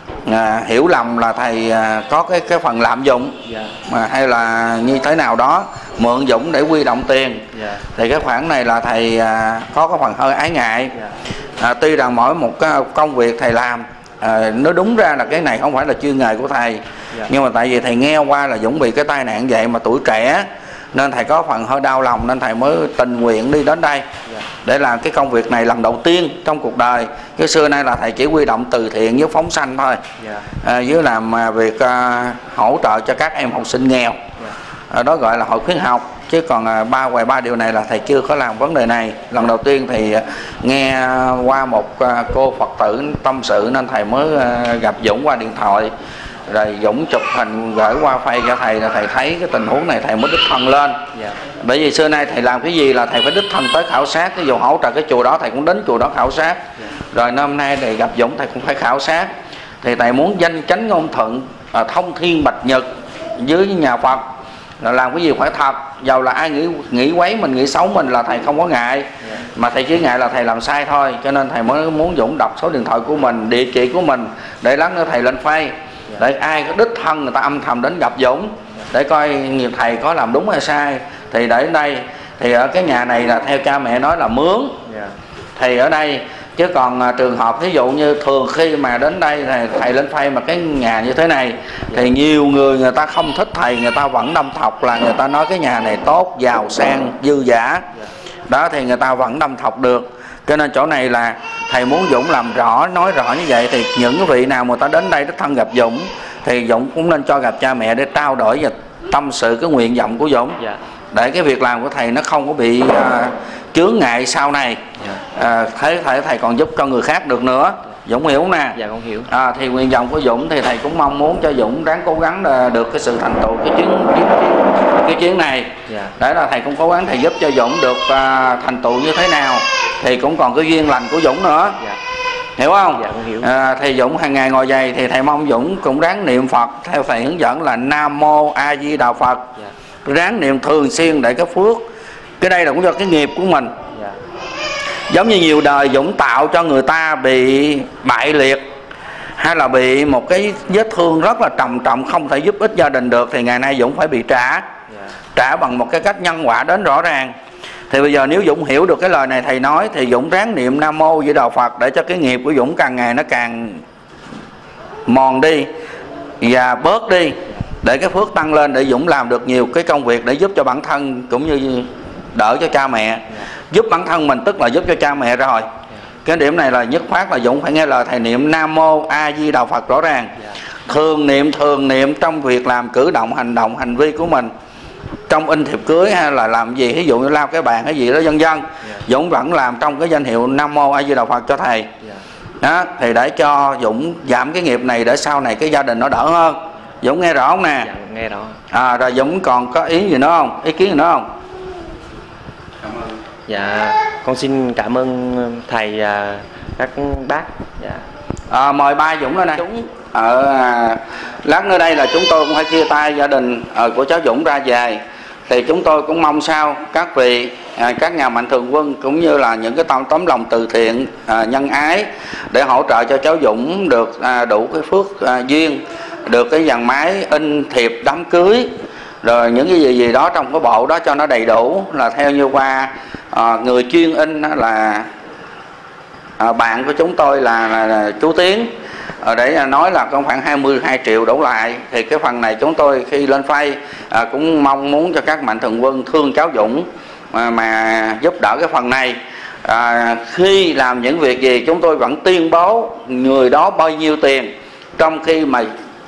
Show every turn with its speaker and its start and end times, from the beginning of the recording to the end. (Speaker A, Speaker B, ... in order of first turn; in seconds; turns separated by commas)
Speaker A: 0.2-7.4, Speaker B: 3.5-3.7, Speaker B: 7.5-7.8, Speaker A: 8.0-10.9, Speaker A: 11.6-24.1, Speaker A: 24.6-30.0, Speaker B: 30.2-30.5, Speaker A: 30.6-34.2, Speaker A: 34.9-45.9, Speaker A: 46.5-51.0, Speaker A: 51.6-56.6, Speaker A: 57.1-59.3, Speaker A: 59.8-64.2, Speaker A: 64.8-84.8, Speaker B: 84.9-85.1, Speaker A: 85.5-97.8, Speaker A: 98.5-110.6, Speaker A: 111.1-114.8, Speaker A: 115.3-131.8, Speaker B: 118.8-119.3, Speaker B: 125.9-126.1, Speaker A: 132.6-139.4, Speaker B: 132.9-133.5, Speaker A: 140.0-141.8, Speaker A: 142.4-143.7, Speaker A: 145.1-148.6, Speaker A: 149.4-154.7, Speaker A: 155.3-157.3, Speaker A: 157.9-163.8, Speaker A: 165.1-165.7, Speaker A: 166.4-175.7, Speaker A: 176.2-180.3, Speaker A: 180.8-184.5, Speaker A: 185.3-191.9, Speaker A: 192.6-197.9, Speaker B: 197.8-198.6, Speaker A: 198.7-201.3, Speaker B: 203.5-208.0, Speaker A: 208.5-228.7, Speaker A: 229.2-235.1, Speaker A: 236.4-255.7